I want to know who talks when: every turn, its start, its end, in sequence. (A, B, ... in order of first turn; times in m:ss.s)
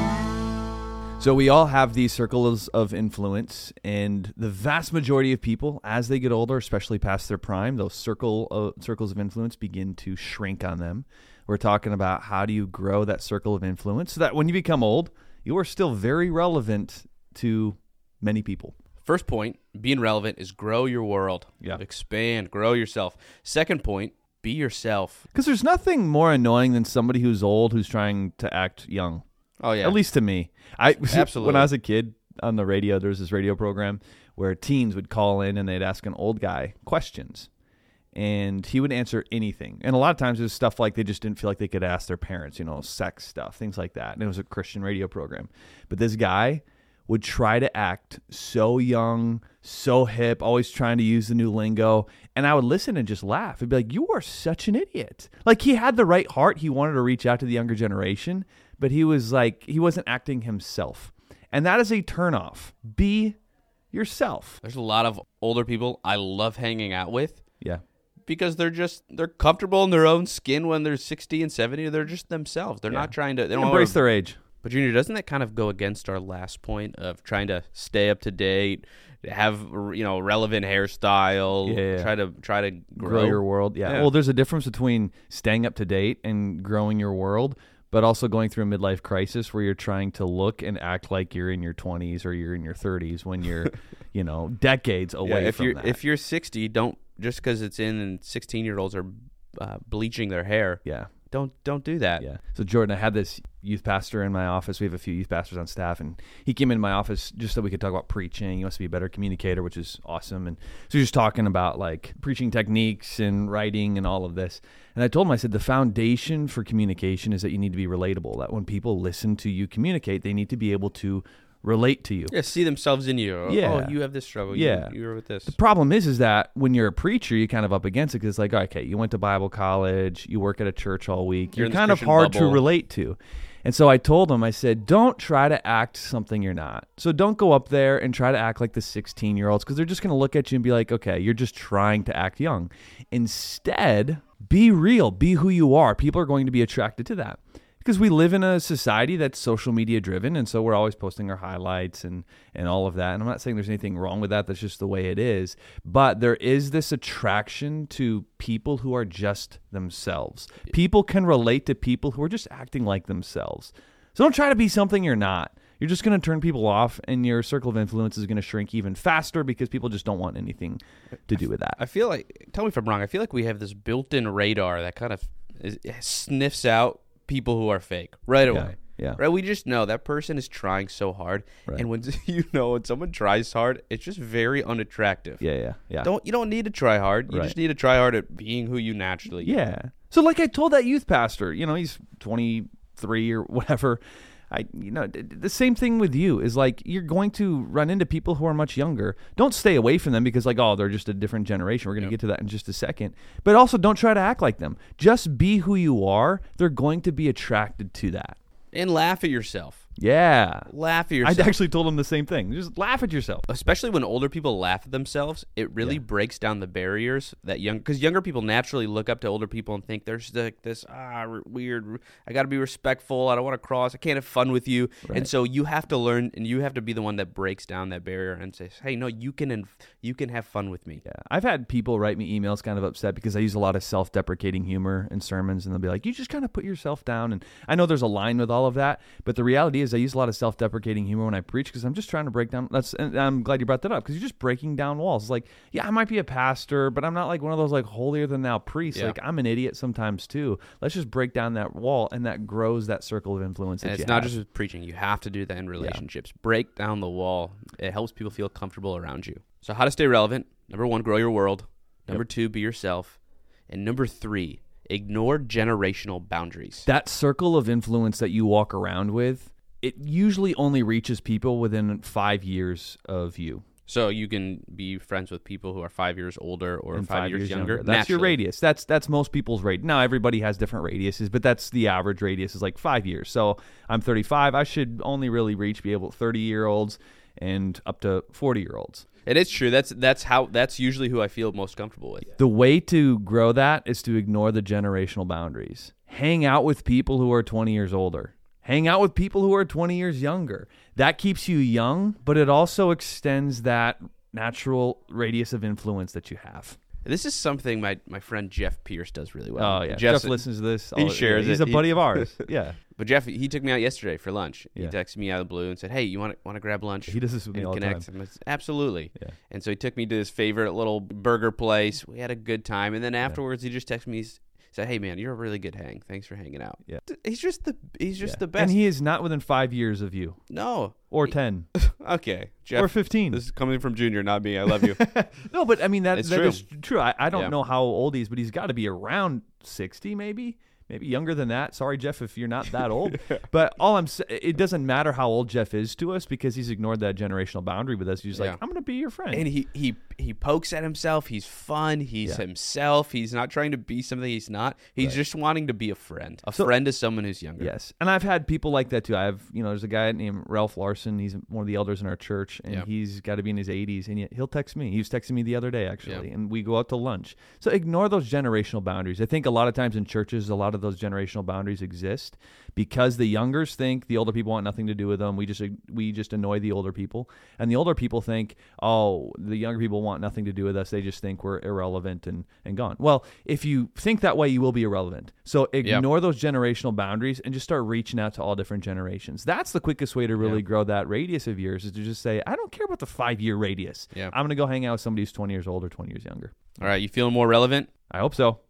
0:01.2-0:18.8 A
0:19.0-0:25.3 B
0:25.3-0:29.2 A
0:29.6-0:30.0 B
0:29.8-0:37.5 A
0:31.1-0:31.7 B
0:38.2-1:03.4 A
1:03.9-1:04.6 A
1:04.6-1:07.4 B
1:08.3-1:14.0 B
1:12.9-1:14.4 A
1:14.6-1:24.1 B
1:21.6-1:22.1 A
1:23.0-1:36.0 A
1:35.2-1:42.2 B
1:40.8-1:41.1 A
1:42.2-2:02.3 A
2:02.3-2:05.6 B
2:03.5-2:04.0 A
2:04.5-2:04.9 A
2:05.5-2:51.8 A
2:11.6-2:12.6 B
2:51.8-3:05.4 B
2:58.5-2:59.2 A
3:05.4-3:06.1 A
3:06.0-3:09.6 B
3:07.3-3:07.6 A
3:09.4-3:28.4 A
3:28.7-3:29.9 B
3:30.0-3:30.7 A
3:30.7-3:31.6 B
3:31.2-3:33.5 A
3:33.5-3:51.0 B
3:51.1-4:14.4 A
4:08.9-4:09.2 B
4:13.8-4:23.2 B
4:23.7-4:26.9 B
4:26.8-4:33.6 A
4:33.9-4:38.4 B
4:36.9-4:49.1 A
4:49.3-4:52.3 B
4:52.4-5:06.8 A
5:07.0-5:12.4 B
5:09.6-5:12.8 A
5:13.0-5:28.8 B
5:17.1-5:18.1 A
5:28.2-5:30.4 A
5:30.5-5:35.0 B
5:31.1-5:31.7 A
5:32.8-5:33.4 A
5:34.8-5:49.5 A
5:36.1-5:36.6 B
5:43.1-5:43.4 B
5:48.3-5:48.6 B
5:49.3-5:57.7 B
5:57.6-6:36.8 A
6:36.8-6:37.9 B
6:38.1-6:38.6 A